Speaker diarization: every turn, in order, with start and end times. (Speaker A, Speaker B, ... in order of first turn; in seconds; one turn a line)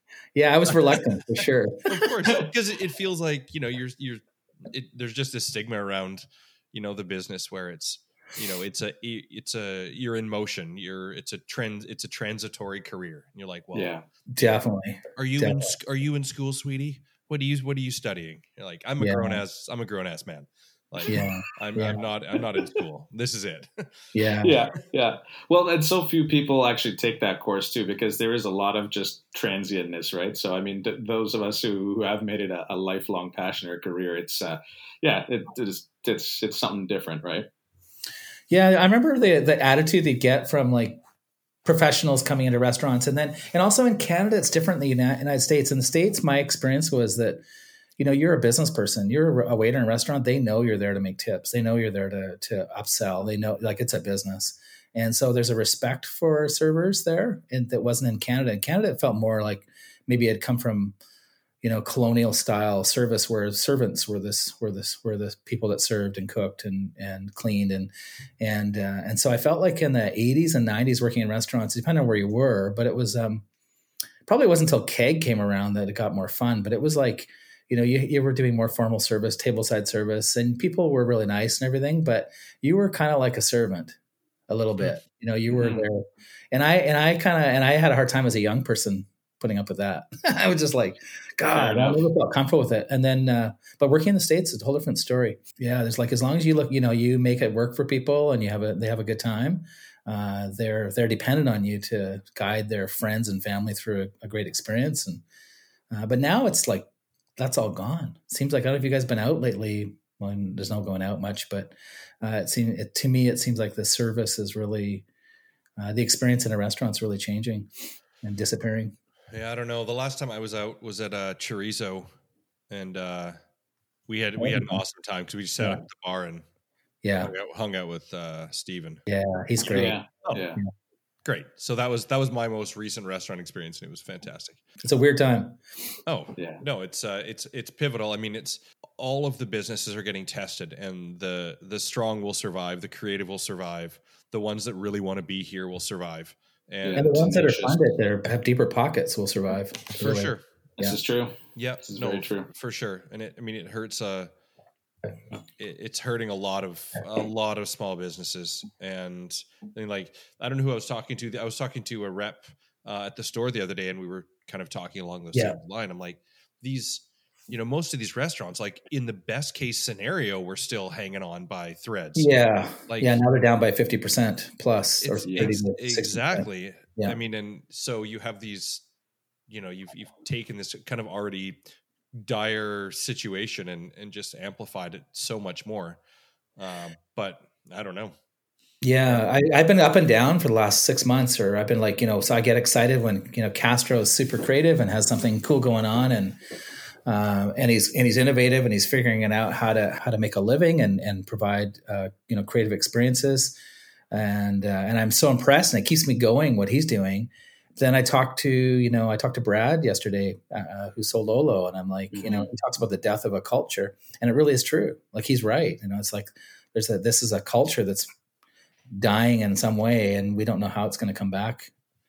Speaker A: 0.3-2.1
Speaker B: 1.9-14.5
Speaker C: 13.7-14.0
Speaker A: 14.3-15.7
Speaker B: 15.2-23.8
Speaker A: 19.0-19.4
Speaker A: 21.1-22.0
Speaker A: 24.1-24.6
Speaker C: 24.4-37.5
Speaker A: 38.5-41.0
Speaker A: 41.6-47.4
Speaker A: 48.0-61.0
Speaker A: 61.6-73.4
Speaker A: 74.2-84.0
Speaker A: 84.5-105.2
Speaker C: 85.5-85.8
Speaker C: 91.5-92.0
Speaker A: 105.9-106.9
Speaker A: 107.4-115.0
Speaker A: 115.8-117.7
Speaker A: 118.2-119.0
Speaker B: 119.3-122.1
Speaker B: 122.7-123.3
Speaker B: 124.1-126.4
Speaker A: 124.4-124.8
Speaker A: 127.0-127.3
Speaker B: 127.2-129.0
Speaker A: 129.1-130.0
Speaker C: 129.7-130.6
Speaker B: 131.2-134.6
Speaker A: 134.8-135.6
Speaker B: 136.1-147.3
Speaker C: 136.4-136.6
Speaker C: 146.8-147.8
Speaker A: 146.9-151.0
Speaker B: 150.0-150.4
Speaker C: 150.8-152.5
Speaker B: 151.5-154.3
Speaker B: 155.6-172.3
Speaker A: 172.1-177.2
Speaker B: 172.9-173.2
Speaker B: 175.0-178.8
Speaker B: 179.5-181.6
Speaker B: 182.2-186.0
Speaker B: 186.6-188.2
Speaker A: 188.8-196.3
Speaker A: 197.1-203.5
Speaker A: 204.1-218.1
Speaker C: 212.1-212.5
Speaker A: 218.9-221.7